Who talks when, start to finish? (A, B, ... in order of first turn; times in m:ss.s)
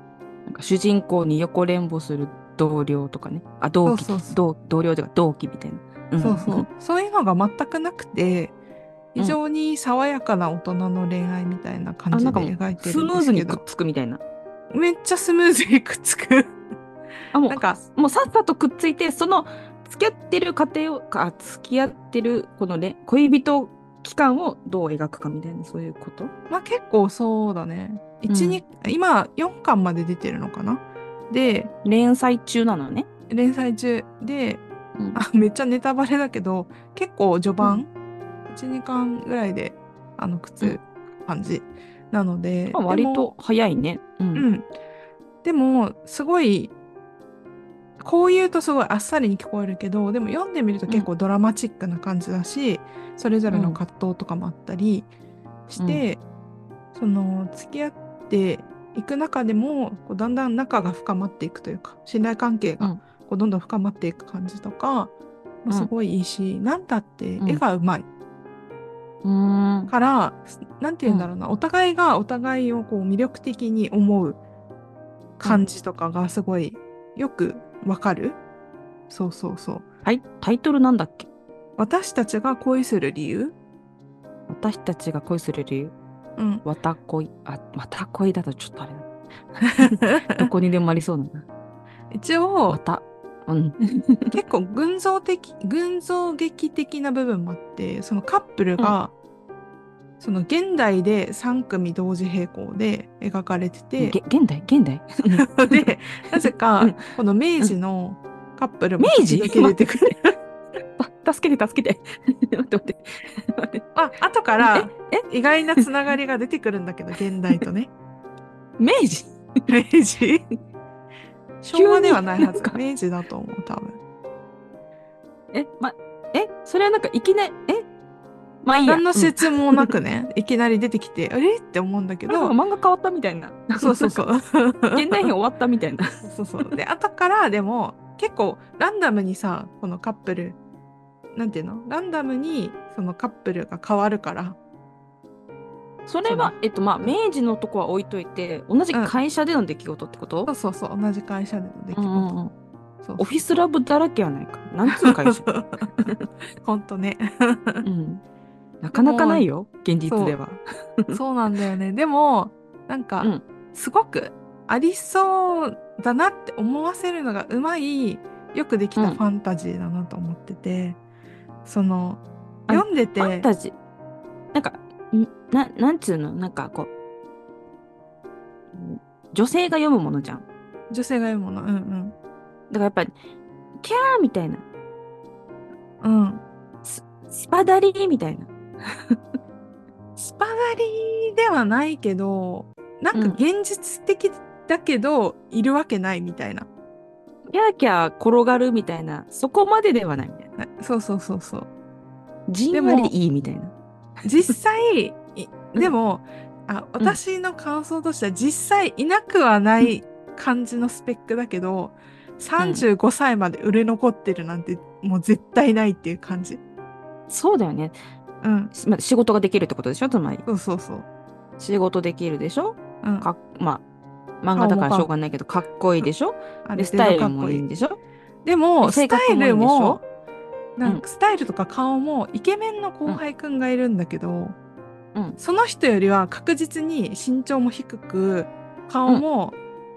0:00.5-0:06.7 A
0:03.8-0:04.4 B
0:06.2-0:08.6 B
0:09.2-0:13.6 B
0:12.1-0:14.2 A
0:14.7-0:16.6 B
0:17.3-0:26.3 A
0:17.5-0:17.8 B
0:26.5-0:31.7 B
0:28.3-0:28.6 A
0:31.8-0:33.1 A
0:33.3-0:34.6 B
0:35.1-0:37.9 B
0:38.5-0:43.3 B
0:42.7-0:44.5 A
0:44.4-0:44.7 B
0:45.4-0:46.7 B
0:48.0-0:55.1 B
0:53.5-0:53.8 A
0:55.7-0:56.2 B
0:55.8-0:56.0 A
0:56.9-1:05.1 B
1:05.6-1:08.1 B
1:09.2-1:09.9 A
1:09.9-1:14.4 B
1:15.4-1:18.4 B
1:19.1-1:19.8 B
1:20.0-1:21.3 A
1:21.8-1:23.6 B
1:24.5-1:25.9 A
1:26.4-1:26.6 B
1:26.6-1:31.5 A
1:29.8-1:30.5 B
1:32.1-1:32.8 B
1:32.7-1:34.4 A
1:34.3-1:39.1 B
1:40.2-1:44.2 B
1:44.0-1:47.8 A
1:45.4-1:50.3 B
1:49.0-1:49.8 A
1:51.0-1:53.8 A
1:54.0-1:57.9 B
1:54.6-1:55.2 A
1:58.8-1:59.7 A
1:59.7-2:00.4 B
2:01.6-2:04.0 B
2:01.7-2:02.8 A
2:05.5-2:07.9 A
2:08.6-2:09.9 A
2:08.9-2:12.5 B
2:12.3-2:14.3 A
2:13.8-2:15.3 B
2:14.9-2:16.7 A
2:16.2-2:20.6 B
2:21.3-2:24.6 B
2:26.1-2:30.5 A
2:26.3-2:27.1 B
2:30.5-2:32.3 B
2:31.9-2:32.5 A
2:33.0-2:33.4 B
2:33.2-2:36.2 A
2:34.9-2:36.1 B
2:36.6-2:37.8 B
2:37.8-2:38.2 A
2:38.8-2:41.2 A
2:38.9-2:39.5 B
2:40.1-2:40.4 B
2:41.1-2:51.0 B
2:51.6-2:53.5 B
2:52.7-2:53.8 A
2:54.5-2:56.9 A
2:58.7-3:00.4 A
3:00.9-3:02.2 B
3:02.7-3:03.1 A
3:03.8-3:04.6 A
3:06.0-3:06.4 B
3:06.8-3:09.2 A
3:10.2-3:16.7 B
3:17.5-3:20.5 A
3:20.6-3:21.7 B
3:22.5-3:23.7 A
3:22.7-3:23.1 B
3:24.2-3:36.6 B
3:32.6-3:32.9 A
3:37.3-3:38.0 A
3:38.4-3:38.7 B
3:38.7-3:40.5 A
3:40.5-3:41.1 B
3:41.6-3:43.8 A
3:43.0-3:43.3 B
3:44.4-3:48.0 A
3:44.6-3:45.1 B
3:46.6-3:47.6 B
3:48.4-3:50.0 B
3:48.8-3:50.0 A
3:50.8-3:54.6 B
3:55.4-3:59.6 B